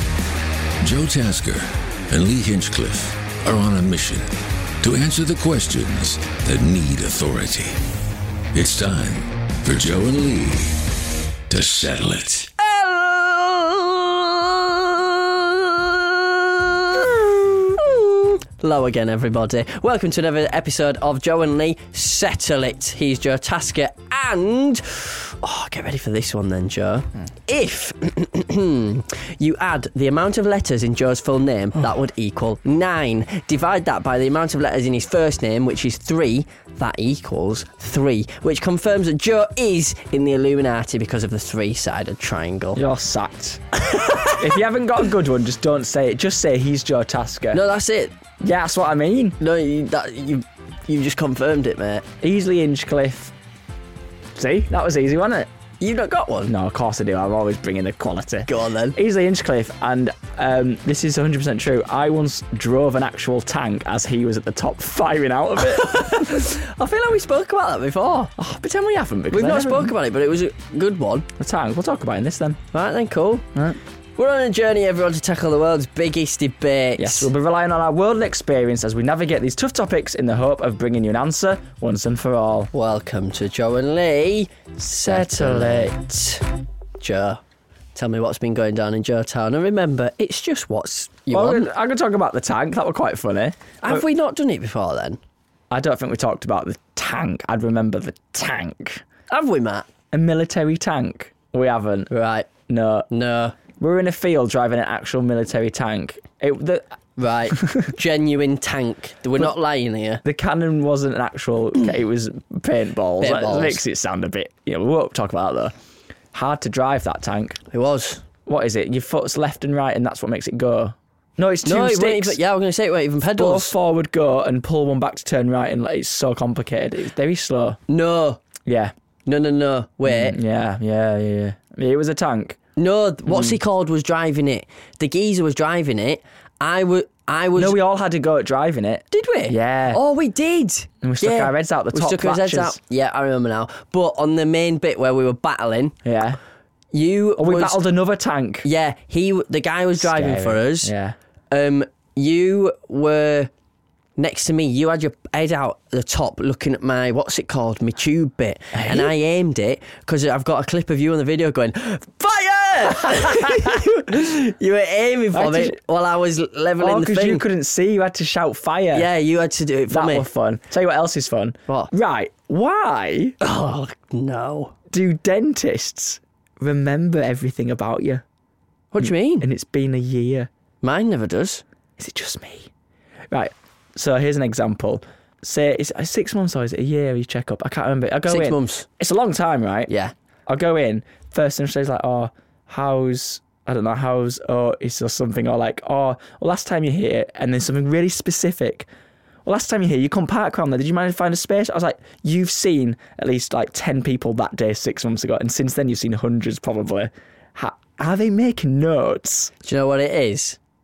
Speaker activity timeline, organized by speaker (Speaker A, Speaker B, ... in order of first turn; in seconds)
Speaker A: 0.8-7.8, 8.5-10.9, 11.5-12.5
Speaker B: 12.6-42.8, 43.9-44.4, 47.5-48.1, 49.4-52.0, 55.8-56.5, 58.5-59.0, 65.7-68.3, 69.3-71.3, 72.7-73.5, 74.2-77.3, 82.7-86.5, 87.0-87.4, 88.0-91.7, 93.8-95.2, 99.3-99.9, 102.1-102.5, 103.1-103.6, 107.2-110.2, 113.2-113.8, 117.7-118.2, 121.7-123.7, 127.9-128.4, 129.3-130.4, 132.8-137.8, 139.1-145.9, 146.9-147.8, 148.6-150.9, 151.5-153.5, 154.2-167.4, 168.9-170.3, 173.4-174.7, 178.9-179.5, 180.8-181.6, 188.3-188.9, 189.9-190.1, 209.6-210.6
Speaker C: 42.8-47.6, 48.4-49.4, 52.2-53.3, 54.4-55.5, 56.5-66.4, 68.4-69.9, 71.4-72.6, 77.0-82.7, 85.0-86.0, 91.3-94.1, 95.7-99.0, 100.1-102.1, 102.7-103.1, 103.7-106.9, 110.2-115.7, 116.3-117.6, 118.5-122.4, 123.4-127.8, 128.7-128.9, 130.1-132.6, 133.3-133.6, 137.6-140.0, 141.0-142.8, 146.0-146.4, 147.4-148.7, 150.0-151.2, 158.7-159.1, 162.9-163.8, 165.3-165.8, 166.8-169.1, 169.9-173.4, 174.9-178.2, 179.0-180.5, 182.0-182.7, 183.3-189.9, 190.5-198.9, 199.4-209.5